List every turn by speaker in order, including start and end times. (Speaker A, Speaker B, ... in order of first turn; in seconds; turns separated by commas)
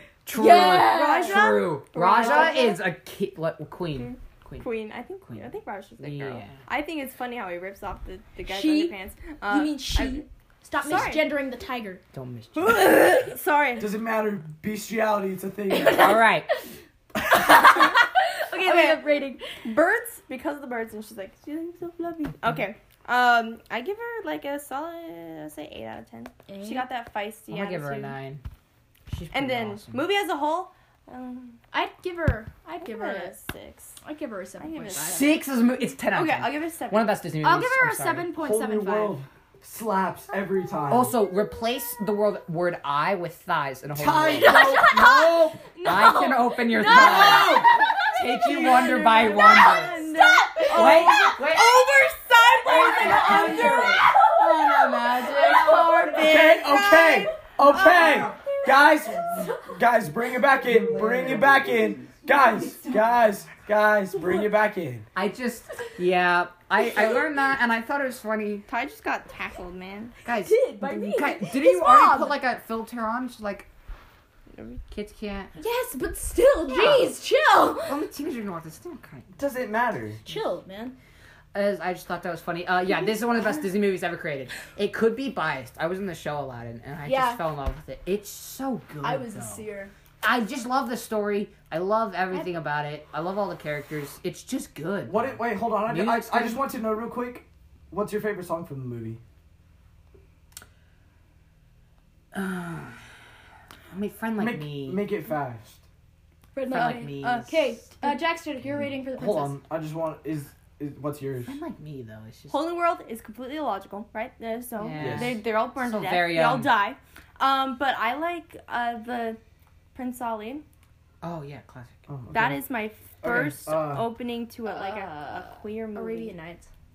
Speaker A: 0.2-4.7, Speaker B: 0.3-2.8, Speaker C: 0.4-2.8, Speaker C: 3.9-10.2, Speaker A: 5.2-6.6, Speaker B: 8.4-8.9, Speaker B: 9.5-12.0, Speaker C: 10.8-11.3, Speaker A: 12.1-13.0, Speaker C: 12.6-13.9, Speaker D: 13.8-16.2, Speaker B: 15.7-16.6, Speaker A: 15.9-16.5, Speaker B: 17.3-19.6, Speaker C: 17.5-18.0, Speaker C: 18.5-28.2, Speaker B: 26.5-26.9, Speaker A: 27.5-28.4, Speaker A: 29.1-30.0, Speaker C: 29.3-31.6, Speaker B: 31.7-33.3, Speaker C: 32.8-34.0, Speaker B: 34.0-35.4, Speaker C: 34.6-35.4, Speaker A: 34.9-38.3, Speaker C: 36.1-37.2, Speaker B: 37.4-39.2, Speaker D: 38.4-41.1, Speaker A: 40.9-45.1, Speaker D: 43.9-45.6, Speaker B: 44.4-51.6, Speaker A: 45.8-50.0, Speaker D: 46.8-47.8, Speaker C: 48.4-58.6, Speaker A: 50.7-51.8, Speaker B: 52.6-59.7, Speaker A: 52.7-54.0, Speaker D: 52.8-54.0, Speaker A: 54.6-55.3, Speaker D: 56.2-65.0, Speaker A: 60.7-61.6, Speaker B: 61.0-61.3, Speaker B: 64.2-64.5, Speaker A: 65.1-68.6, Speaker C: 68.7-70.2, Speaker A: 70.2-73.7, Speaker B: 70.3-72.4, Speaker C: 74.5-74.8, Speaker A: 74.9-75.5, Speaker B: 75.6-78.0, Speaker A: 76.7-77.1, Speaker A: 77.8-79.3, Speaker D: 79.3-80.2, Speaker B: 80.2-80.9, Speaker A: 81.5-89.7, Speaker B: 87.0-87.4, Speaker B: 89.0-89.9, Speaker A: 90.2-96.6, Speaker D: 95.1-99.2, Speaker A: 102.3-103.0, Speaker A: 103.9-105.0, Speaker D: 104.4-105.8, Speaker B: 106.5-109.6, Speaker A: 106.7-107.9, Speaker C: 106.7-108.1, Speaker D: 109.1-111.6, Speaker A: 111.4-112.6, Speaker C: 112.5-119.4, Speaker A: 114.8-116.8, Speaker D: 115.0-115.4, Speaker C: 119.9-120.6, Speaker A: 121.2-122.0, Speaker D: 122.1-122.6, Speaker C: 122.3-126.3, Speaker D: 123.2-124.1, Speaker A: 123.2-123.6, Speaker B: 124.7-126.7